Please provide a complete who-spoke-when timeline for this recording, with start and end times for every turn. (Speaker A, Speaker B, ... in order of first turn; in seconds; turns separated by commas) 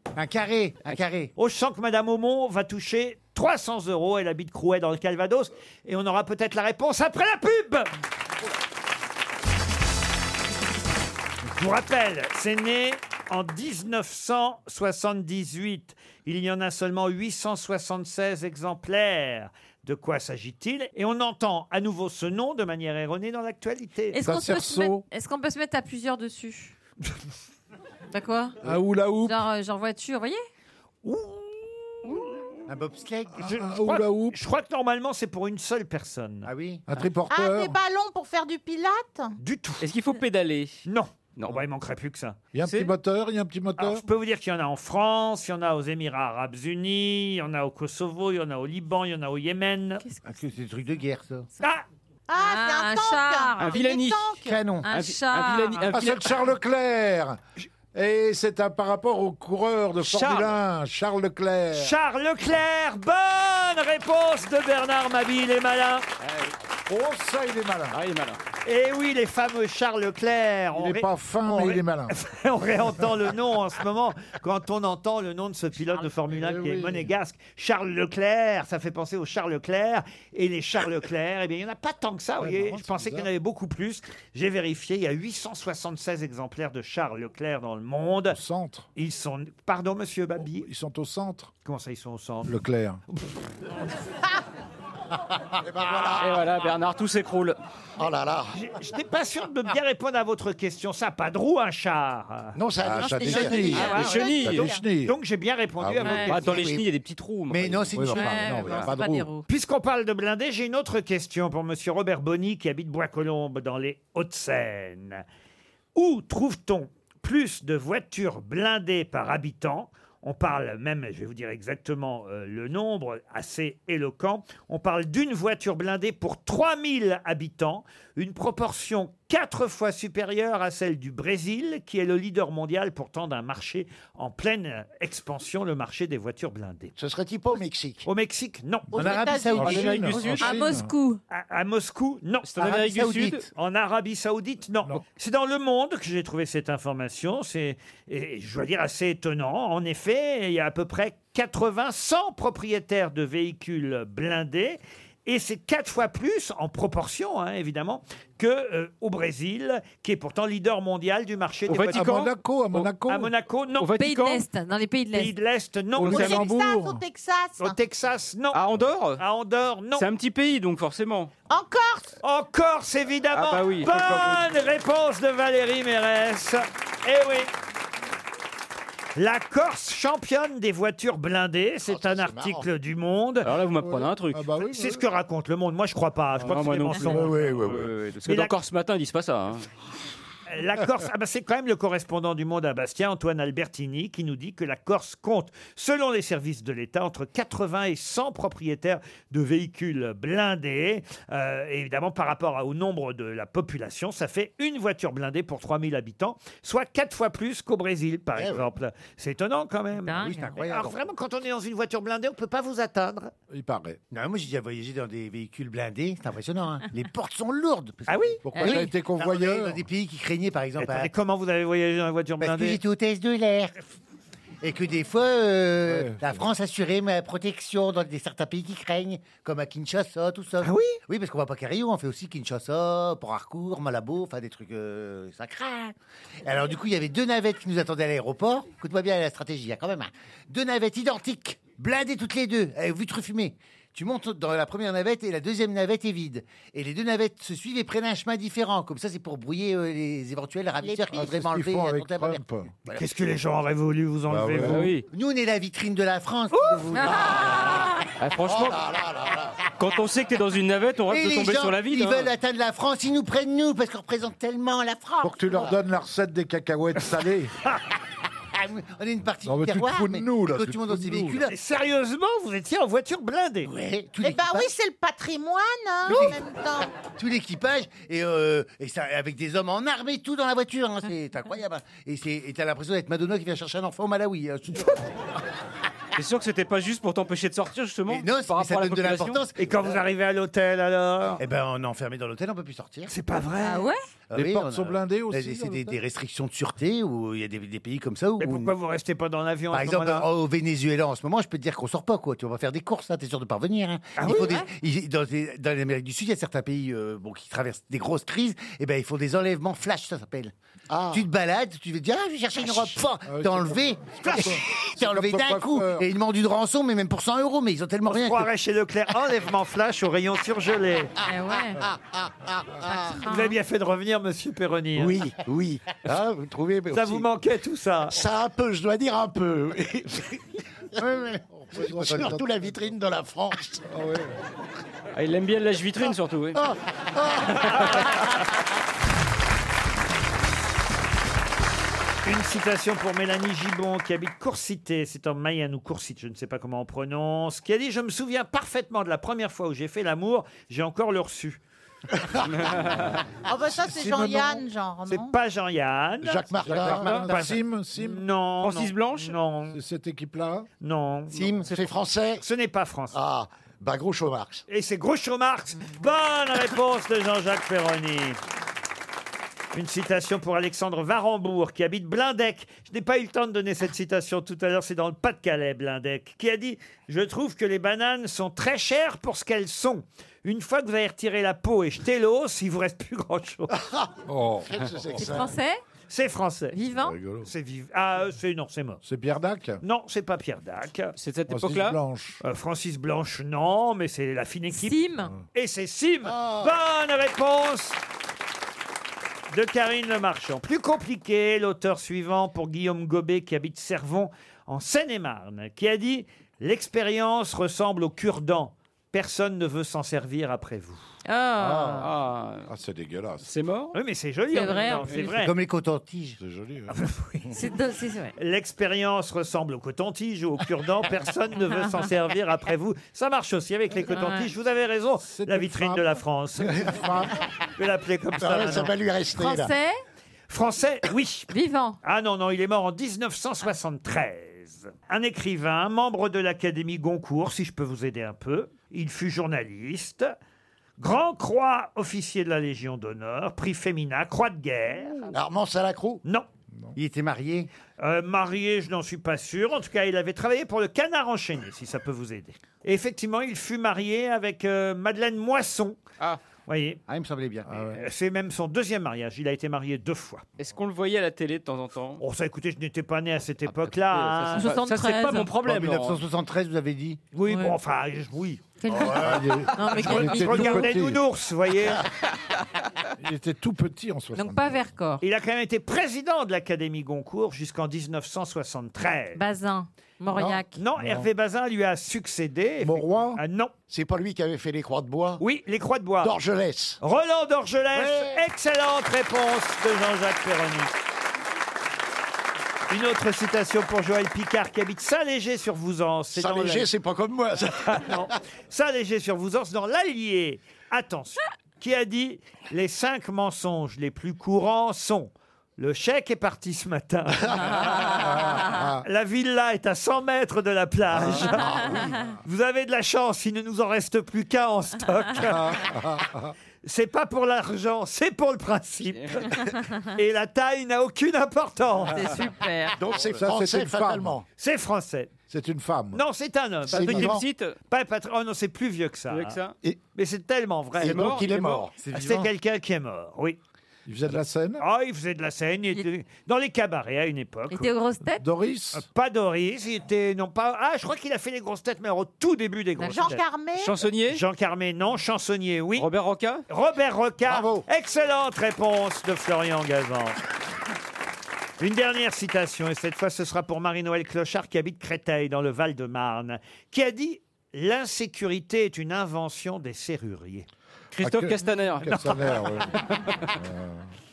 Speaker A: 0.1-1.3, Speaker B: 1.4-7.9, Speaker B: 11.5-24.2, Speaker C: 24.1-26.7, Speaker D: 24.2-25.0, Speaker C: 28.1-28.6, Speaker D: 28.6-29.4, Speaker C: 29.2-30.4, Speaker B: 31.0-32.2, Speaker A: 32.7-33.5, Speaker D: 33.4-34.4, Speaker B: 33.4-36.5, Speaker A: 36.4-36.9, Speaker D: 36.9-37.7, Speaker E: 37.3-39.3, Speaker B: 39.4-39.8, Speaker F: 39.8-40.8, Speaker B: 40.9-42.4, Speaker F: 41.4-41.6, Speaker D: 42.5-44.0, Speaker F: 42.6-42.9, Speaker B: 43.8-50.0, Speaker C: 50.0-50.4, Speaker A: 50.2-51.5, Speaker E: 52.3-54.6, Speaker C: 52.3-53.8, Speaker F: 53.6-54.3, Speaker A: 54.4-54.9, Speaker C: 54.8-55.9, Speaker F: 54.9-56.4, Speaker D: 55.9-57.4, Speaker D: 57.9-62.0, Speaker F: 60.0-60.5, Speaker B: 61.7-66.0, Speaker F: 66.2-66.5, Speaker D: 66.9-68.0, Speaker F: 67.9-68.4, Speaker B: 68.6-88.4, Speaker D: 70.7-72.1, Speaker D: 76.3-77.1, Speaker D: 82.4-83.3, Speaker D: 88.3-88.9, Speaker B: 89.0-90.7, Speaker D: 90.4-91.5, Speaker B: 91.6-92.5, Speaker D: 92.4-93.0, Speaker G: 95.6-96.4, Speaker F: 96.1-97.6, Speaker G: 98.0-98.5, Speaker B: 98.5-102.6, Speaker G: 102.6-103.8, Speaker D: 102.8-105.2, Speaker C: 103.0-104.6, Speaker A: 103.2-104.0, Speaker B: 103.7-106.6, Speaker F: 103.8-104.6, Speaker E: 104.5-104.8, Speaker D: 105.8-106.3, Speaker C: 106.0-106.4, Speaker F: 106.3-108.0, Speaker A: 106.5-106.8, Speaker A: 107.5-108.8, Speaker D: 107.9-109.3, Speaker C: 108.1-109.4, Speaker F: 108.6-108.9, Speaker B: 109.5-115.2, Speaker B: 115.9-136.9, Speaker G: 136.9-138.1, Speaker B: 138.0-139.2, Speaker E: 138.9-139.8, Speaker A: 138.9-140.5, Speaker D: 139.5-140.9, Speaker F: 139.6-140.6, Speaker C: 140.4-141.2, Speaker B: 141.3-142.5, Speaker F: 142.4-143.5, Speaker A: 142.6-143.5, Speaker B: 143.5-162.1, Speaker F: 161.7-162.9, Speaker D: 161.9-163.3, Speaker B: 163.1-163.9, Speaker F: 163.8-164.4, Speaker C: 164.0-165.3, Speaker B: 165.1-166.4, Speaker D: 165.9-167.0, Speaker E: 166.1-167.8, Speaker F: 166.1-166.4, Speaker B: 167.6-168.6, Speaker F: 168.5-169.2, Speaker B: 169.2-170.1, Speaker F: 169.9-171.3, Speaker E: 171.5-172.1, Speaker B: 172.2-177.5, Speaker F: 173.3-174.3, Speaker B: 179.2-183.5, Speaker G: 181.9-182.7, Speaker F: 183.4-184.4, Speaker D: 183.8-185.0, Speaker B: 184.6-187.5, Speaker F: 186.4-189.7, Speaker G: 187.0-187.9, Speaker B: 188.2-188.5, Speaker B: 190.5-213.3, Speaker C: 210.1-210.7, Speaker A: 210.2-210.9, Speaker D: 213.5-214.0, Speaker A: 214.1-221.1, Speaker B: 218.1-218.6, Speaker D: 218.4-219.8, Speaker B: 220.8-222.8, Speaker A: 222.4-223.7, Speaker A: 224.6-253.0, Speaker D: 225.8-226.4, Speaker B: 230.6-231.0, Speaker E: 250.8-251.3, Speaker D: 251.1-252.7, Speaker B: 252.9-254.9, Speaker D: 254.3-254.9, Speaker F: 254.6-255.1, Speaker A: 255.1-257.7, Speaker B: 256.5-256.9, Speaker C: 256.9-258.1, Speaker F: 258.2-258.9, Speaker G: 258.5-259.6, Speaker F: 259.8-262.3, Speaker A: 261.1-265.8, Speaker D: 265.2-267.5, Speaker A: 268.5-271.5, Speaker D: 269.4-271.5, Speaker B: 271.5-273.7, Speaker A: 273.6-274.7, Speaker E: 274.2-277.0, Speaker A: 276.1-276.4, Speaker A: 276.9-285.0, Speaker F: 286.1-289.4, Speaker A: 288.1-290.0, Speaker B: 289.6-291.4, Speaker A: 291.4-293.1, Speaker B: 293.1-293.9, Speaker C: 293.6-294.0, Speaker A: 294.3-298.7, Speaker D: 294.3-296.0, Speaker B: 298.4-300.3, Speaker A: 299.7-310.5, Speaker B: 304.2-304.6, Speaker G: 310.9-311.3, Speaker A: 311.1-318.5, Speaker D: 313.2-316.1, Speaker B: 314.2-314.6, Speaker B: 318.1-321.1, Speaker C: 321.2-321.9, Speaker C: 322.8-323.6, Speaker B: 323.2-325.3, Speaker G: 324.9-327.2, Speaker B: 326.9-328.2, Speaker G: 328.1-330.6, Speaker A: 331.0-332.4, Speaker D: 331.5-332.9, Speaker G: 331.8-333.9, Speaker D: 333.9-334.4, Speaker F: 335.1-336.6, Speaker G: 336.6-337.5, Speaker B: 337.5-338.1, Speaker B: 342.2-351.6, Speaker F: 352.5-353.2, Speaker E: 353.5-355.3, Speaker D: 353.9-354.3, Speaker B: 355.1-359.8, Speaker G: 356.2-357.3, Speaker D: 356.6-358.2, Speaker F: 358.6-359.3, Speaker D: 359.7-360.7, Speaker B: 360.8-361.5, Speaker G: 361.3-362.4, Speaker B: 362.4-363.2, Speaker G: 363.1-364.6, Speaker B: 364.7-368.4, Speaker B: 369.7-383.8, Speaker G: 383.9-385.5, Speaker D: 384.2-385.2, Speaker C: 385.1-385.8, Speaker B: 386.1-386.8, Speaker C: 386.7-387.2, Speaker D: 387.0-387.5, Speaker B: 387.4-389.0, Speaker D: 389.0-389.8, Speaker B: 389.8-391.1, Speaker F: 391.2-392.0, Speaker D: 391.5-392.4, Speaker B: 392.4-395.0, Speaker C: 394.7-395.3, Speaker B: 395.5-398.0, Speaker G: 396.3-396.7, Speaker B: 399.5-411.0, Speaker C: 411.2-412.1, Speaker D: 411.6-412.0, Speaker F: 412.0-412.7, Speaker D: 412.7-413.5, Speaker F: 413.4-413.9, Speaker B: 413.9-415.5, Speaker C: 414.5-415.3, Speaker A: 415.4-416.4, Speaker D: 416.4-416.9, Speaker B: 416.9-417.5, Speaker C: 417.5-418.3, Speaker B: 418.4-426.9, Speaker C: 424.0-424.5, Speaker D: 425.3-427.4, Speaker B: 427.8-428.9, Speaker G: 428.4-429.7, Speaker C: 429.3-430.0, Speaker B: 430.5-440.3, Speaker C: 431.5-432.0, Speaker B: 441.0-445.3, Speaker G: 445.2-446.2, Speaker D: 446.7-447.0, Speaker A: 446.9-447.7, Speaker B: 448.0-456.0, Speaker B: 456.7-457.0, Speaker A: 457.1-457.8, Speaker D: 457.6-458.0, Speaker B: 457.9-460.4, Speaker F: 460.6-462.2, Speaker B: 462.2-464.7, Speaker F: 463.7-466.2, Speaker C: 464.5-465.5, Speaker A: 465.6-467.2, Speaker B: 467.3-468.7, Speaker C: 467.5-467.7, Speaker C: 468.8-471.0, Speaker A: 468.9-469.7, Speaker D: 469.0-471.2, Speaker B: 469.9-472.1, Speaker D: 473.2-474.9, Speaker C: 474.3-475.2, Speaker B: 475.2-479.4, Speaker C: 479.3-480.8, Speaker D: 480.3-481.3, Speaker B: 480.8-483.7, Speaker D: 482.8-483.4, Speaker G: 483.9-485.4, Speaker B: 485.4-486.3, Speaker G: 486.2-487.0, Speaker B: 487.0-490.9, Speaker G: 487.9-488.4, Speaker B: 492.9-496.9, Speaker G: 496.3-498.3, Speaker B: 497.8-508.3, Speaker D: 507.9-509.0, Speaker B: 509.0-511.9, Speaker G: 511.2-511.9, Speaker C: 511.8-512.0, Speaker B: 512.4-516.0, Speaker D: 515.4-516.5, Speaker B: 516.8-522.4, Speaker F: 519.1-519.5, Speaker C: 522.1-523.0, Speaker G: 523.0-524.4, Speaker D: 523.2-524.4, Speaker B: 524.6-525.3, Speaker D: 525.5-526.2, Speaker B: 526.1-527.4, Speaker F: 526.9-527.8, Speaker G: 526.9-527.4, Speaker B: 527.9-529.6, Speaker F: 529.3-529.7, Speaker B: 530.1-531.4, Speaker F: 531.0-531.8, Speaker G: 531.0-531.9, Speaker A: 531.0-532.5, Speaker B: 532.1-533.6, Speaker D: 534.0-534.8, Speaker B: 534.8-537.9, Speaker C: 537.7-538.4, Speaker D: 538.3-539.0, Speaker B: 538.9-543.4, Speaker E: 543.0-543.9, Speaker F: 543.8-544.4, Speaker B: 544.3-546.1, Speaker F: 546.0-546.6, Speaker B: 546.7-550.4, Speaker G: 547.5-547.8, Speaker B: 551.8-560.7, Speaker F: 561.1-562.5, Speaker D: 561.2-564.1, Speaker F: 563.2-563.5